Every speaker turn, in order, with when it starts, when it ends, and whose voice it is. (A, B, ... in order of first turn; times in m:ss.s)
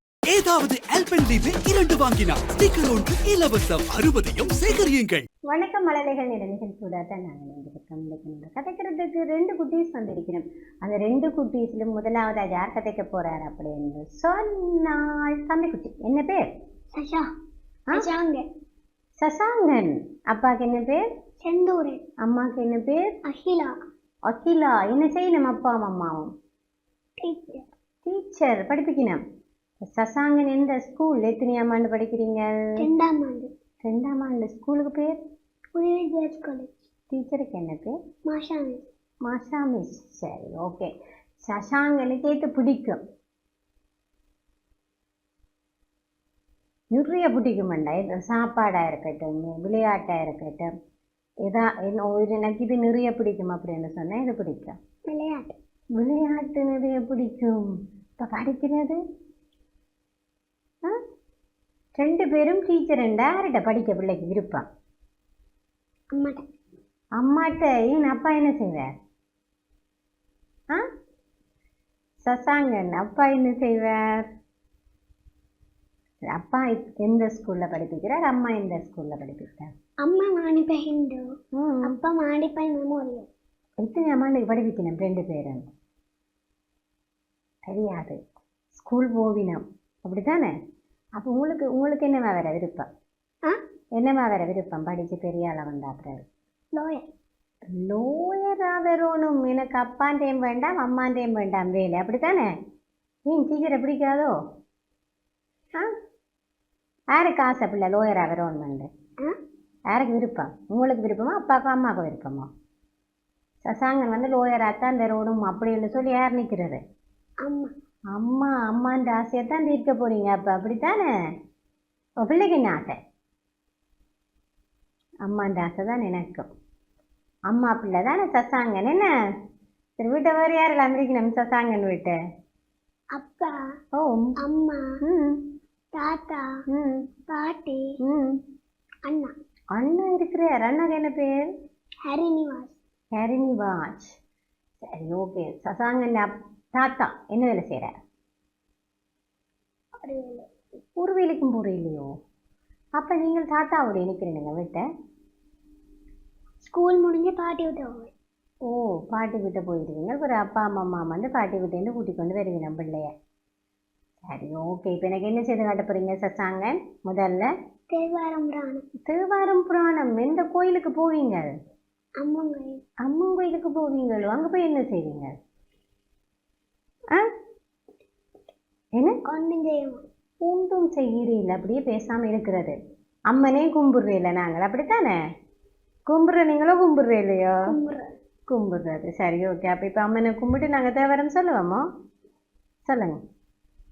0:00.3-0:05.2 A
0:05.5-0:16.5 B
0:17.0-0:17.3 C
0:17.9-0:18.4 C
0:19.2-0:21.0 B
0:21.4-0:22.0 C
0:22.2-0:23.1 B
0:23.3-0:23.7 C
0:24.3-0:26.3 B
0:27.2-0:27.6 C
0:28.0-0:29.2 B
0:29.8-0:32.8 B
0:32.8-0:33.5 C
0:33.8-0:35.2 B
0:35.7-0:36.8 C
0:37.1-0:38.0 B
0:38.3-0:38.8 C
0:39.2-0:40.9 B
0:41.4-0:43.0 B
0:46.9-0:50.7 B
0:51.4-0:54.8 B
0:55.1-0:55.5 C
0:56.0-0:59.0 B
1:02.0-1:04.6 B
1:06.1-1:06.4 C
1:07.2-1:08.9 B
1:12.2-1:14.2 B
1:16.3-1:19.7 B
1:20.0-1:21.2 C
1:21.5-1:22.0 B
1:21.8-1:23.3 C
1:23.8-1:25.7 B
1:27.7-1:28.2 B
1:28.7-1:30.5 B
1:31.2-1:32.9 B
1:34.0-1:36.2 B
1:36.7-1:37.0 C
1:37.7-1:42.5 B
1:43.3-1:44.4 B
1:47.1-1:48.9 B
1:49.9-1:52.5 B
1:53.6-1:56.8 B
1:57.4-1:57.7 C
1:58.1-2:01.1 B
2:02.2-2:03.0 B
2:05.2-2:06.5 B
2:07.5-2:09.1 B
2:10.0-2:12.2 B
2:13.1-2:13.6 C
2:13.9-2:14.4 B
2:14.4-2:14.9 C
2:15.0-2:15.4 B
2:15.9-2:16.6 C
2:16.7-2:17.0 B
2:17.3-2:18.0 C
2:18.0-2:18.4 B
2:19.1-2:19.3 C
2:19.7-2:21.5 B
2:22.1-2:22.8 C
2:23.1-2:24.2 B
2:24.8-2:27.9 B
2:30.0-2:30.5 C
2:31.0-2:32.1 B
2:33.0-2:34.9 B
2:36.6-2:38.1 C
2:38.6-2:43.1 B
2:44.2-2:47.5 B
2:47.9-2:48.8 C
2:49.0-2:51.5 B
2:52.2-2:52.8 C
2:53.0-2:55.3 B
2:59.3-3:00.0 C
3:00.4-3:02.8 B
3:03.3-3:05.2 B
3:06.1-3:07.6 B
3:07.7-3:08.1 C
3:08.5-3:11.8 B
3:12.8-3:13.2 B